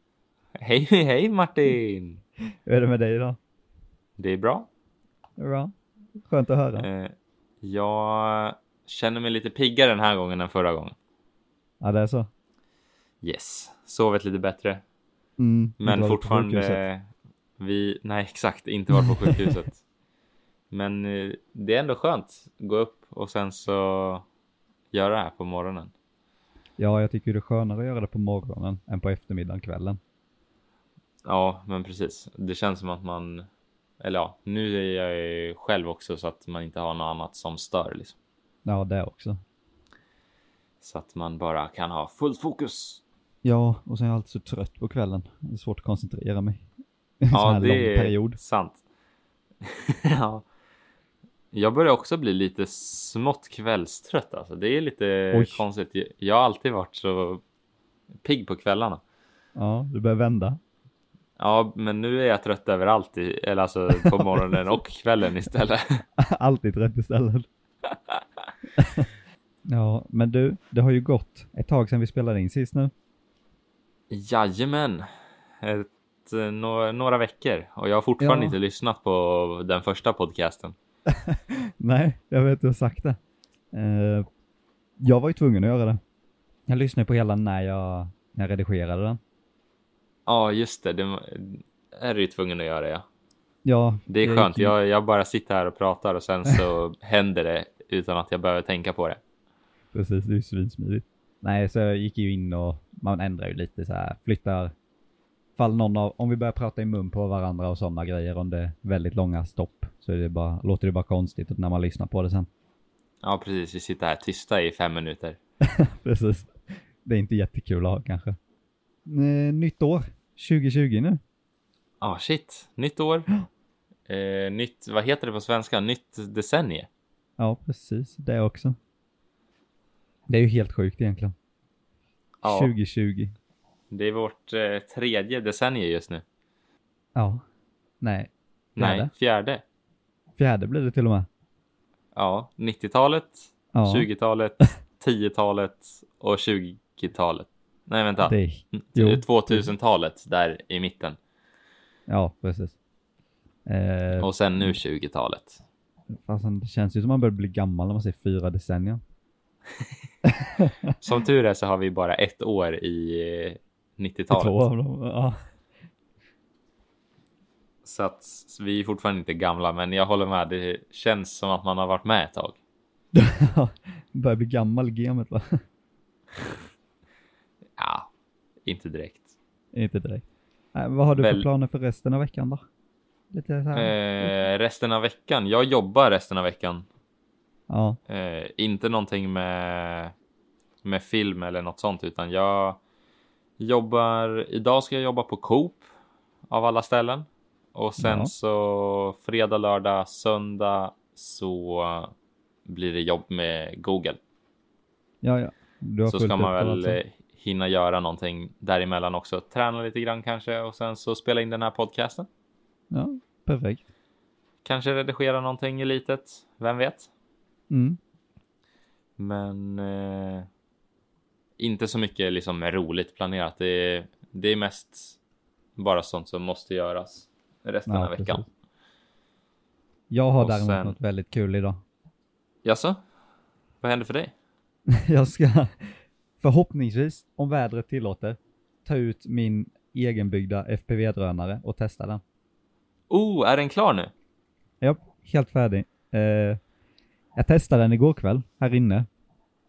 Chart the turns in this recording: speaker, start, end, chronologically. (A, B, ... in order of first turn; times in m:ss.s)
0:00.5-0:02.2 A
0:02.6-0:03.4 B
0:04.2-0:04.7 A
0:05.4-0:05.7 B
0:06.2-0:06.9 B
0:06.8-0:11.0 A
0:11.8-0:12.3 B
0:13.2-0:14.8 A
0:15.4-0:16.8 B
0:15.8-0:19.8 A
0:19.0-0:19.5 B
0:20.7-0:24.2 A
0:24.9-0:25.9 A
0:26.8-0:30.0 B
0:31.2-0:33.5 A
0:34.0-0:38.1 A
0:38.6-0:39.4 B
0:40.8-0:43.0 A
0:43.4-0:46.6 B
0:47.2-0:48.4 B
0:47.3-0:48.8 A
0:49.6-0:50.4 A
0:51.5-0:57.4 A
0:55.3-0:55.6 B
0:58.2-0:59.0 A
0:59.6-1:00.6 B
1:01.4-1:06.0 A
1:03.9-1:04.6 B
1:06.2-1:07.4 B
1:07.9-1:08.2 A
1:08.8-1:09.1 B
1:09.7-1:12.9 B
1:14.1-1:15.1 A
1:15.6-1:20.8 A
1:18.2-1:18.5 B
1:21.1-1:23.2 B
1:23.7-1:24.2 B
1:25.0-1:26.0 B
1:26.7-1:29.2 B
1:30.2-1:33.0 A
1:33.6-1:34.7 B
1:34.1-1:39.2 A
1:39.9-1:44.7 B
1:45.6-1:52.5 B
1:53.2-1:55.4 A
1:55.6-1:58.4 B
1:59.1-2:01.2 B
2:02.0-2:03.2 A
2:04.1-2:06.9 A
2:07.4-2:08.8 B
2:10.3-2:11.3 B
2:12.4-2:12.7 A
2:12.4-2:13.3 B
2:13.9-2:16.2 A
2:17.2-2:17.4 B
2:18.0-2:19.1 B
2:18.8-2:19.6 A
2:20.4-2:21.3 B
2:22.1-2:31.2 A
2:23.7-2:24.1 B
2:28.2-2:29.7 B
2:32.1-2:32.7 B
2:33.7-2:34.8 B
2:34.2-2:35.6 A
2:36.2-2:39.0 B
2:40.2-2:40.9 B
2:41.0-2:44.6 A
2:44.3-2:45.3 B
2:47.8-2:52.6 A
2:53.1-2:55.6 B
2:57.8-2:58.1 A
2:58.6-2:59.3 A
2:59.7-3:00.2 B
3:00.7-3:02.6 B
3:01.1-3:01.4 A
3:03.3-3:04.3 B
3:03.7-3:06.8 A
3:07.7-3:08.0 B
3:08.1-3:10.1 A
3:10.8-3:12.8 A
3:13.6-3:15.8 A
3:16.5-3:22.1 A
3:18.0-3:18.3 B
3:22.6-3:24.2 A
3:25.2-3:27.0 B
3:26.0-3:32.3 A
3:32.9-3:33.8 B
3:34.6-3:37.1 A
3:37.7-3:38.0 B
3:39.2-3:40.5 A
3:41.6-3:45.2 A
3:45.8-3:48.4 A
3:47.9-3:48.4 B
3:50.1-3:51.8 B
3:50.4-3:51.0 A
3:52.6-3:53.0 A
3:53.8-3:54.3 A
3:54.9-4:02.2 B
4:03.1-4:04.1 A
4:04.8-4:06.6 B
4:07.4-4:09.1 B